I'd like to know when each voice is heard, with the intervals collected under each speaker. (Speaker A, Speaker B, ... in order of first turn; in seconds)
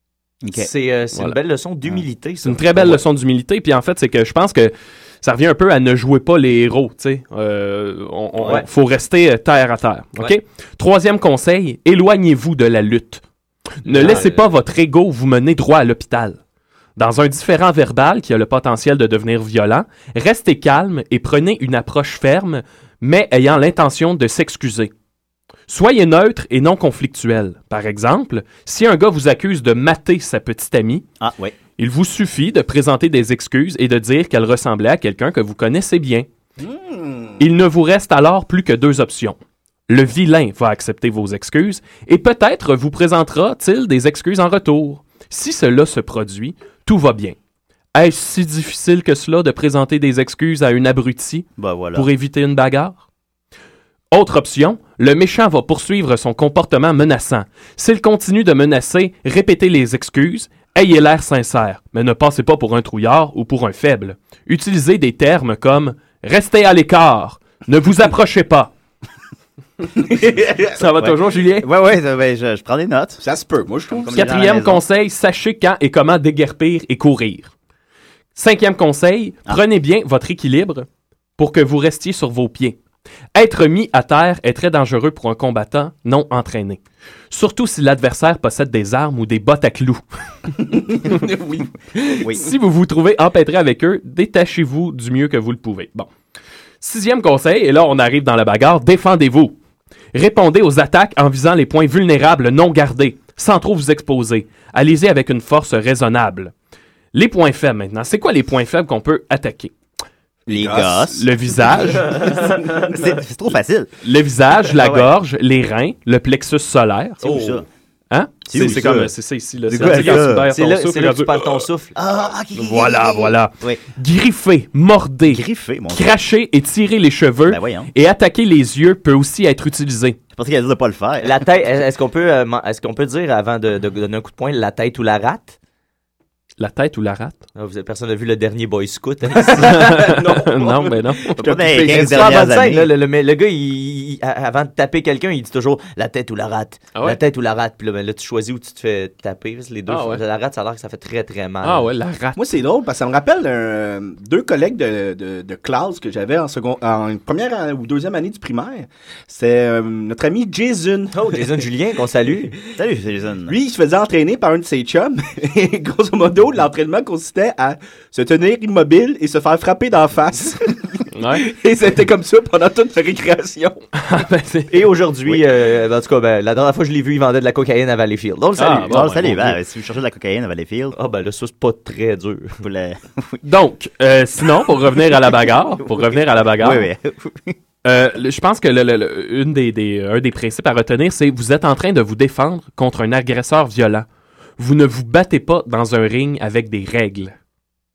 Speaker A: 0.4-0.7, 31.2-31.6, 51.6-52.1, 71.0-73.2, 73.9-74.8, 110.5-111.2, 112.9-113.9, 114.7-115.1, 117.2-117.7, 118.5-119.1, 119.7-120.5, 122.0-123.8, 125.3-126.2, 127.5-127.9, 130.3-131.5, 141.4-142.9, 162.8-163.6, 178.9-181.0, 182.6-183.4, 186.6-187.6
Speaker B: 0.5-3.0, 8.4-8.7, 13.9-14.4, 112.1-112.8, 117.2-117.6, 119.8-121.9, 131.2-135.6, 137.6-139.8, 141.8-151.9, 161.1-162.5, 174.7-179.0, 180.9-182.6
Speaker C: 2.4-13.2, 13.8-16.4, 17.0-24.9, 25.7-31.1, 31.8-36.3, 37.4-47.4, 47.9-53.0, 54.1-68.7, 70.8-71.7, 74.1-77.5, 78.3-80.9, 81.4-82.8, 83.3-90.0, 92.0-96.1, 96.8-99.6, 100.1-106.5, 107.1-109.7, 111.0-112.4, 114.0-117.2, 118.1-121.7, 122.5-130.2, 136.6-137.4, 139.6-141.4, 149.9-150.2, 151.6-152.4, 171.1-171.5, 174.0-174.7, 178.6-179.6, 183.4-186.9, 187.8-194.1, 194.6-197.3
Speaker D: 36.6-37.4, 70.0-70.8, 73.2-74.2, 90.6-91.7, 110.5-111.0, 139.6-142.3, 152.4-161.4, 163.5-173.8